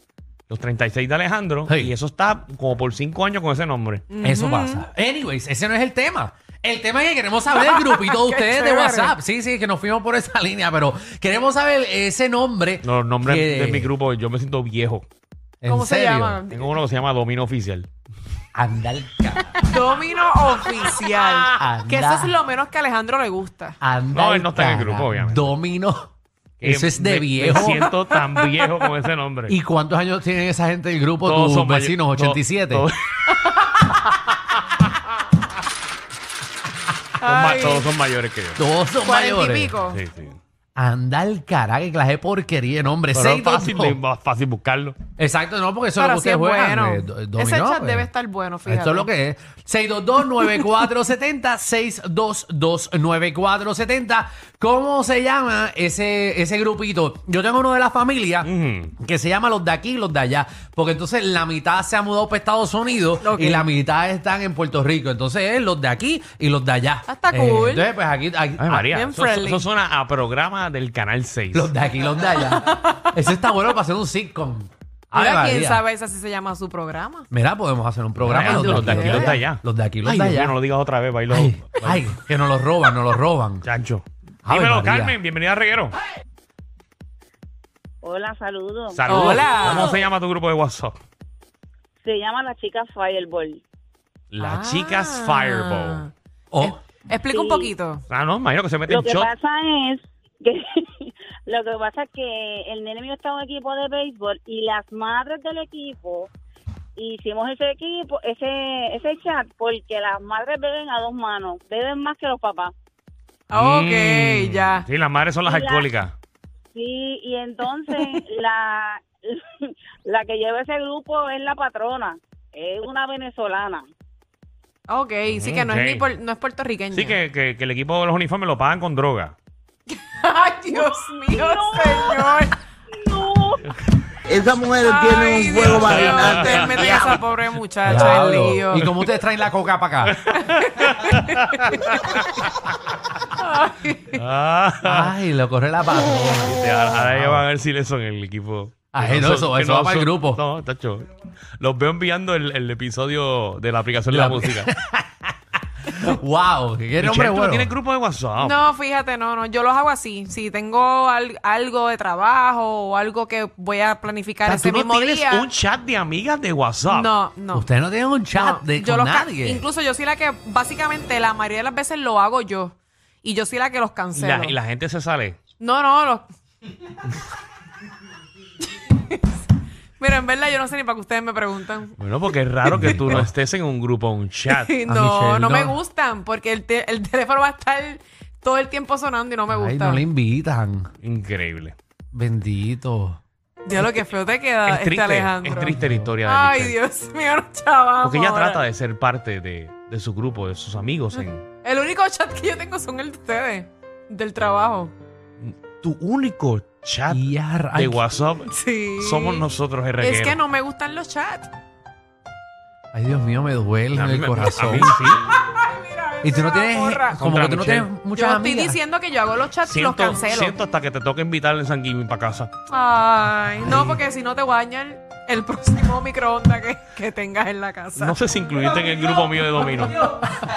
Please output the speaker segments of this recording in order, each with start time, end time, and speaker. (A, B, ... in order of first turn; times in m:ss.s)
0:00.5-0:04.0 A
0:01.7-0:01.9 B
0:04.1-0:04.8 C
0:04.2-0:13.9 B
0:07.5-0:09.1 C
0:12.8-0:15.0 A
0:15.6-0:16.4 B
0:15.7-0:16.7 C
0:16.5-0:17.9 A
0:18.5-0:19.6 B
0:19.6-0:23.8 C
0:21.5-0:22.3 B
0:23.8-0:26.1 B
0:24.1-0:25.5 A
0:26.6-0:29.6 A
0:26.6-0:27.9 B
0:28.1-0:28.7 C
0:29.5-0:32.9 B
0:31.2-0:33.4 A
0:37.2-0:37.9 C
0:37.2-0:38.6 A
0:38.6-0:39.7 B
0:39.0-0:40.0 C
0:39.9-0:40.4 A
0:40.8-0:44.0 B
0:43.1-0:45.0 A
0:45.2-0:48.1 B
0:46.0-0:49.1 C
0:48.6-1:08.8 B
0:58.4-0:58.9 A
1:03.2-1:03.7 C
1:07.1-1:07.9 C
1:08.6-1:11.7 A
1:08.8-1:09.7 C
1:11.5-1:15.8 B
1:12.6-1:13.1 C
1:15.1-1:17.3 C
1:17.3-1:20.6 B
1:18.2-1:22.1 A
1:18.4-1:19.4 C
1:21.3-1:23.6 B
1:23.6-1:26.0 A
1:24.4-1:25.2 B
1:28.0-1:29.8 D
1:28.9-1:31.0 A
1:29.1-1:29.9 C
1:32.0-1:33.6 D
1:34.3-1:36.0 A
1:34.4-1:36.1 C
1:36.5-1:36.8 B
1:36.6-1:38.0 C
1:37.3-1:37.7 D
1:38.1-1:39.3 A
1:38.9-1:46.3 D
1:47.0-1:52.7 D
1:53.5-1:54.8 C
1:53.5-1:56.1 A
1:55.4-1:55.9 D
1:56.7-2:03.8 D
1:57.9-1:58.2 C
2:04.9-2:07.2 C
2:05.3-2:06.1 A
2:06.9-2:09.4 A
2:10.0-2:12.6 C
2:10.7-2:13.6 D
2:14.3-2:17.4 E
2:14.8-2:18.9 C
2:15.7-2:16.9 A
2:17.8-2:20.2 B
2:20.0-2:22.7 A
2:20.3-2:22.1 C
2:23.4-2:24.2 C
2:24.1-2:25.1 A
2:24.8-2:27.4 B
2:26.4-2:34.7 A
2:28.9-2:30.4 B
2:34.1-2:37.7 B
2:37.0-2:38.6 A
2:38.4-2:45.4 C
2:44.4-2:45.2 B
2:45.0-2:47.1 A
2:46.9-2:47.6 C
2:47.5-2:49.6 B
2:48.3-2:54.6 C
2:54.1-2:55.4 A
2:55.6-2:56.3 C
2:58.8-2:59.4 C
3:00.0-3:02.0 C
3:02.0-3:04.7 A
3:02.6-3:03.3 B
3:04.5-3:10.0 C
3:04.9-3:05.8 B
3:09.5-3:10.9 B
3:11.0-3:11.8 A
3:12.1-3:13.2 B
3:13.6-3:18.6 C
3:13.8-3:14.0 A
3:14.6-3:16.8 A
3:15.6-3:16.1 B
3:18.0-3:21.5 A
3:21.6-3:24.9 C
3:25.4-3:30.4 A
3:27.1-3:28.0 B
3:28.5-3:29.4 C
3:30.0-3:31.5 C
3:32.9-3:35.0 B
3:33.9-3:35.2 A
3:35.3-3:37.2 C
3:36.2-3:38.8 B
3:37.2-3:37.9 A
3:38.1-3:40.6 C
3:39.6-3:42.5 A
3:42.7-3:50.3 C
3:48.0-3:50.1 A